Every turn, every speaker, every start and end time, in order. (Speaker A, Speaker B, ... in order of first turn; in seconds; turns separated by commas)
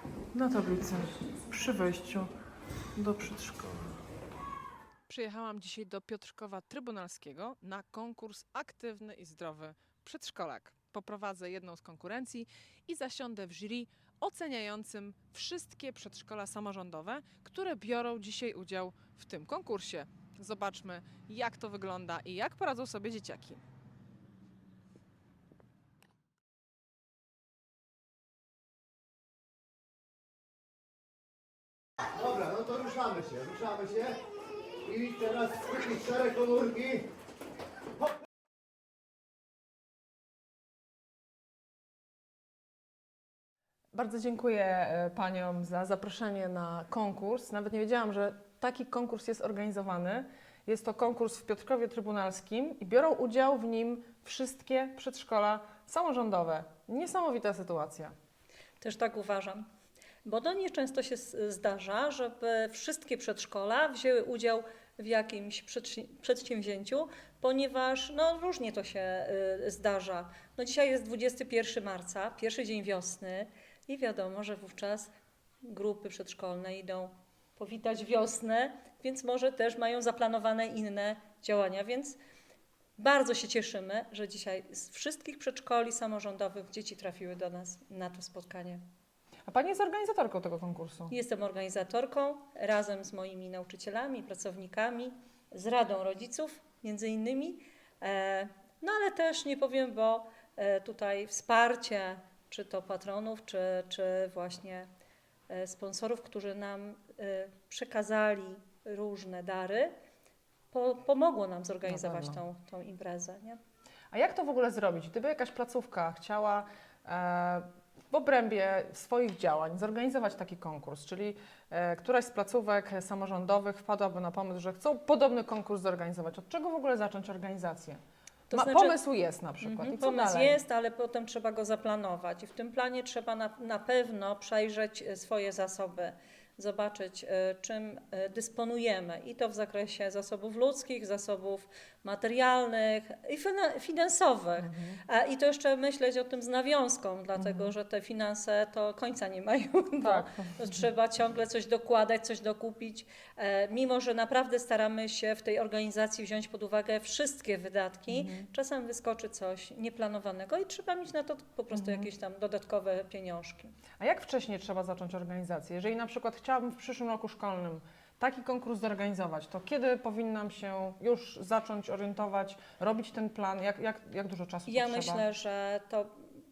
Speaker A: 0.3-2.3, Speaker A: 3.0-4.0, Speaker A: 5.1-23.6, Speaker B: 32.2-34.2, Speaker B: 34.8-37.0, Speaker A: 43.9-58.1, Speaker C: 58.8-59.6, Speaker C: 60.2-82.2, Speaker C: 83.0-88.8, Speaker A: 89.5-91.1, Speaker C: 91.1-104.9, Speaker C: 105.5-109.9, Speaker C: 110.7-113.6, Speaker A: 111.8-112.4, Speaker A: 114.1-128.0, Speaker C: 128.5-129.0, Speaker A: 128.5-130.6, Speaker C: 129.6-163.8, Speaker A: 144.6-145.0, Speaker A: 147.4-147.7, Speaker A: 150.0-150.8, Speaker A: 158.1-158.5, Speaker A: 161.7-162.1, Speaker A: 164.0-175.2, Speaker C: 174.7-176.3